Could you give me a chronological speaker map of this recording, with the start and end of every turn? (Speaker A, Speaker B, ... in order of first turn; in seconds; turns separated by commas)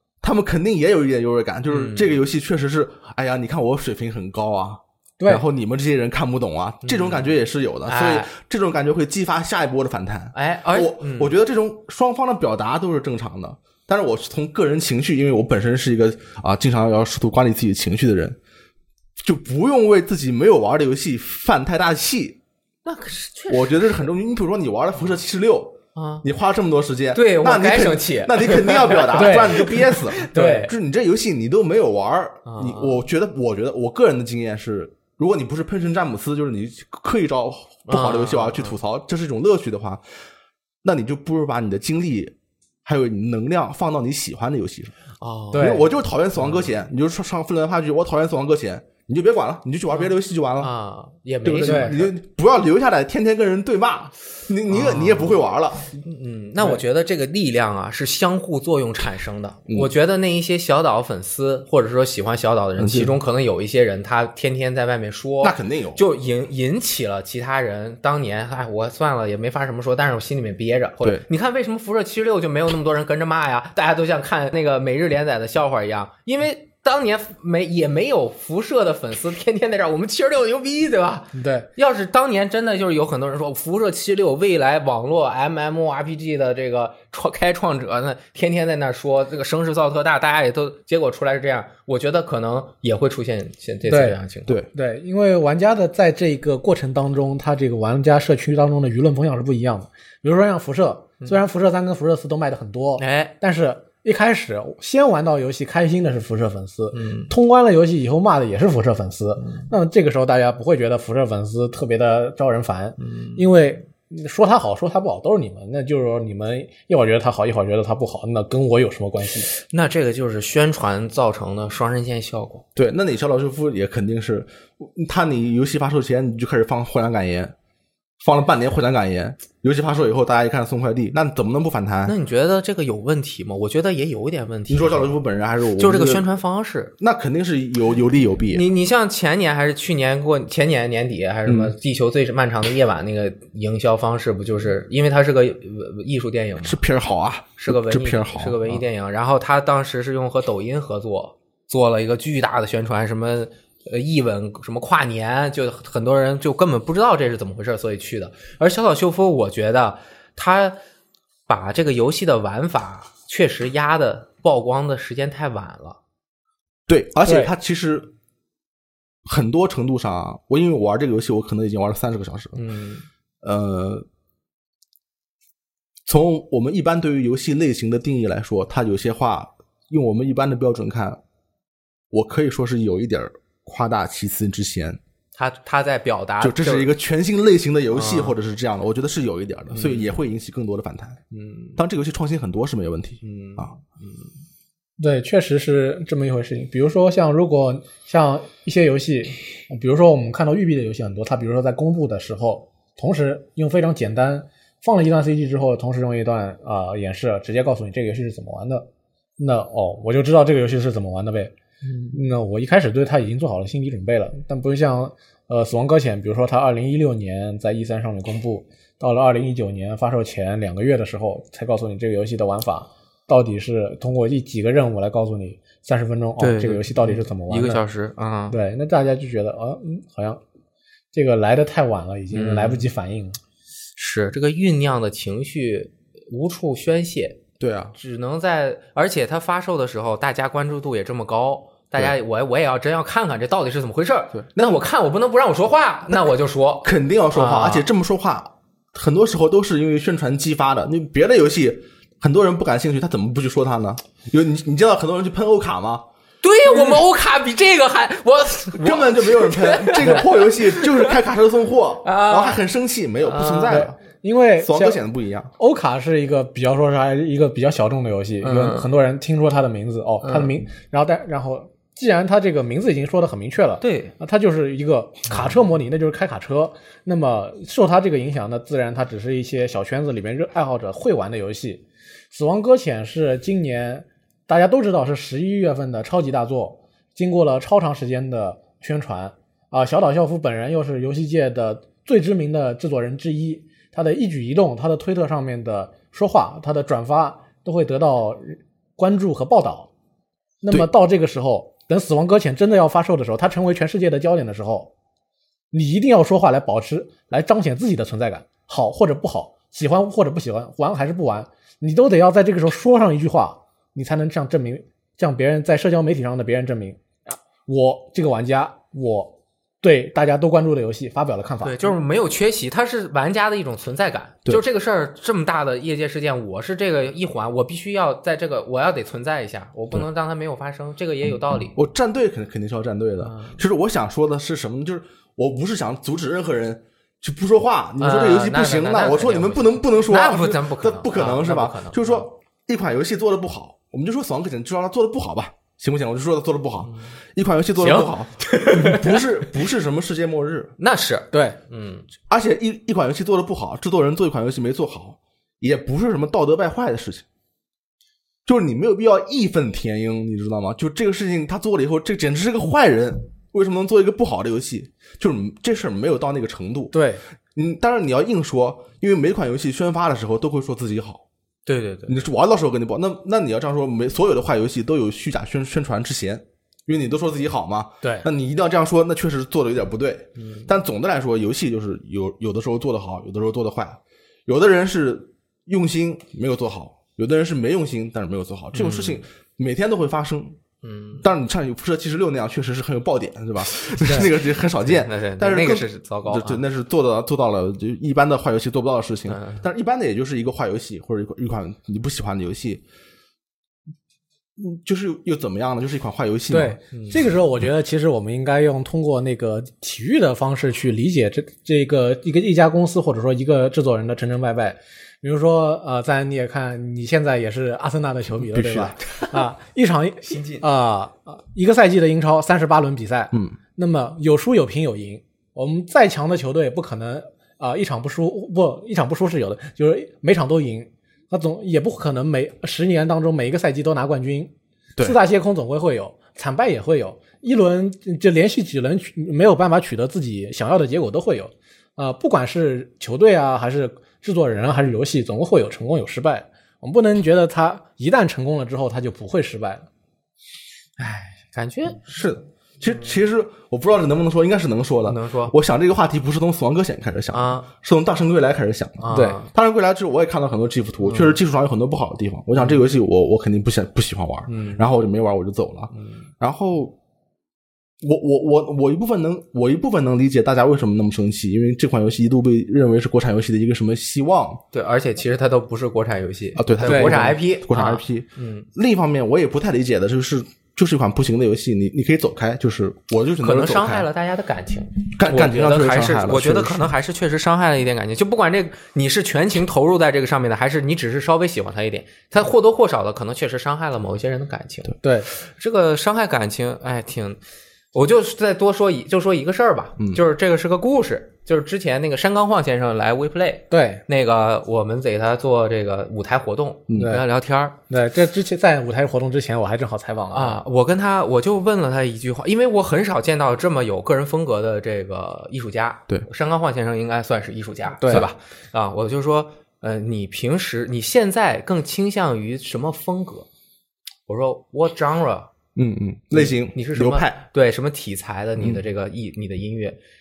Speaker A: 0.2-18.4, Speaker B: 1.7-2.2, Speaker C: 5.2-5.5, Speaker B: 6.8-7.3, Speaker B: 7.9-8.3, Speaker B: 10.3-11.3, Speaker A: 19.2-22.4, Speaker B: 22.9-23.9, Speaker A: 23.5-40.0, Speaker B: 25.9-26.2, Speaker B: 27.1-30.7, Speaker C: 29.1-30.7, Speaker B: 32.5-33.0, Speaker B: 37.9-38.8, Speaker A: 40.8-45.0, Speaker B: 45.2-45.8, Speaker C: 45.5-45.9, Speaker A: 45.5-50.7, Speaker B: 46.4-46.7, Speaker B: 49.9-52.0, Speaker A: 51.5-55.9, Speaker C: 51.6-52.1, Speaker B: 54.7-55.4, Speaker B: 56.0-94.6, Speaker A: 62.8-63.2, Speaker A: 65.4-66.0, Speaker C: 81.3-81.7, Speaker C: 93.9-94.2, Speaker C: 94.7-119.5, Speaker B: 103.0-103.3, Speaker B: 106.9-107.3, Speaker B: 113.0-113.5, Speaker B: 119.6-122.7, Speaker A: 122.8-127.5, Speaker A: 128.2-132.2, Speaker B: 132.1-135.1, Speaker A: 134.7-136.2, Speaker B: 135.8-136.9, Speaker A: 137.0-138.6, Speaker B: 138.5-146.8, Speaker A: 141.5-141.7, Speaker A: 146.6-148.8, Speaker B: 147.6-160.8, Speaker B: 161.5-166.0, Speaker A: 166.9-168.1, Speaker C: 167.2-167.5, Speaker A: 169.3-172.6, Speaker B: 172.6-173.1, Speaker A: 173.4-174.1, Speaker A: 176.1-181.2, Speaker A: 182.1-185.0, Speaker B: 185.4-186.9, Speaker A: 186.4-191.2, Speaker B: 187.9-188.3, Speaker B: 189.7-190.2, Speaker B: 191.3-191.8, Speaker A: 191.8-193.7, Speaker B: 193.2-194.3, Speaker C: 195.0-211.5, Speaker B: 211.9-212.2, Speaker C: 212.1-227.8, Speaker B: 226.4-228.6, Speaker C: 228.5-230.4, Speaker C: 231.1-233.4, Speaker B: 232.3-232.9, Speaker B: 234.0-237.4, Speaker A: 237.6-237.9, Speaker B: 237.9-247.9, Speaker A: 244.3-244.8, Speaker A: 246.8-256.1, Speaker B: 256.4-261.1, Speaker A: 258.8-264.0, Speaker B: 262.0-262.6, Speaker B: 263.2-263.9, Speaker C: 263.7-265.0, Speaker A: 264.6-265.5, Speaker C: 265.6-299.9, Speaker B: 268.4-268.9, Speaker B: 270.2-270.5, Speaker B: 273.8-274.1, Speaker C: 300.6-304.9, Speaker C: 305.7-321.9, Speaker B: 321.6-331.8, Speaker A: 331.8-350.8, Speaker B: 333.2-333.6, Speaker B: 338.0-342.3, Speaker B: 347.8-349.2, Speaker B: 350.8-352.1, Speaker C: 351.3-351.6, Speaker A: 352.3-357.2, Speaker A: 358.5-367.0, Speaker C: 366.9-367.2, Speaker A: 367.6-371.2, Speaker B: 371.7-372.2, Speaker A: 372.1-390.6, Speaker C: 378.0-378.3, Speaker B: 380.4-380.7, Speaker B: 388.7-389.2, Speaker B: 390.8-391.3, Speaker A: 391.2-402.8, Speaker B: 394.9-396.6, Speaker B: 399.3-399.6, Speaker A: 404.6-406.8, Speaker C: 406.5-449.9, Speaker A: 418.4-419.0, Speaker B: 420.3-420.6, Speaker A: 423.3-423.6, Speaker B: 451.0-452.0, Speaker A: 452.1-467.0, Speaker B: 455.1-455.5, Speaker B: 457.3-457.7, Speaker B: 459.0-459.5, Speaker B: 461.0-461.4, Speaker B: 464.5-464.8, Speaker B: 465.9-466.3, Speaker A: 468.0-474.6, Speaker B: 474.7-478.7, Speaker A: 476.6-484.1, Speaker C: 476.9-477.3, Speaker B: 483.4-497.4, Speaker A: 485.1-486.9, Speaker C: 495.0-495.3, Speaker B: 497.9-507.8, Speaker C: 503.7-504.0, Speaker A: 506.9-507.1, Speaker C: 507.0-507.2, Speaker C: 507.9-510.6, Speaker B: 510.3-523.5, Speaker C: 518.0-518.3, Speaker B: 524.3-525.5, Speaker A: 525.8-527.4, Speaker B: 526.3-530.0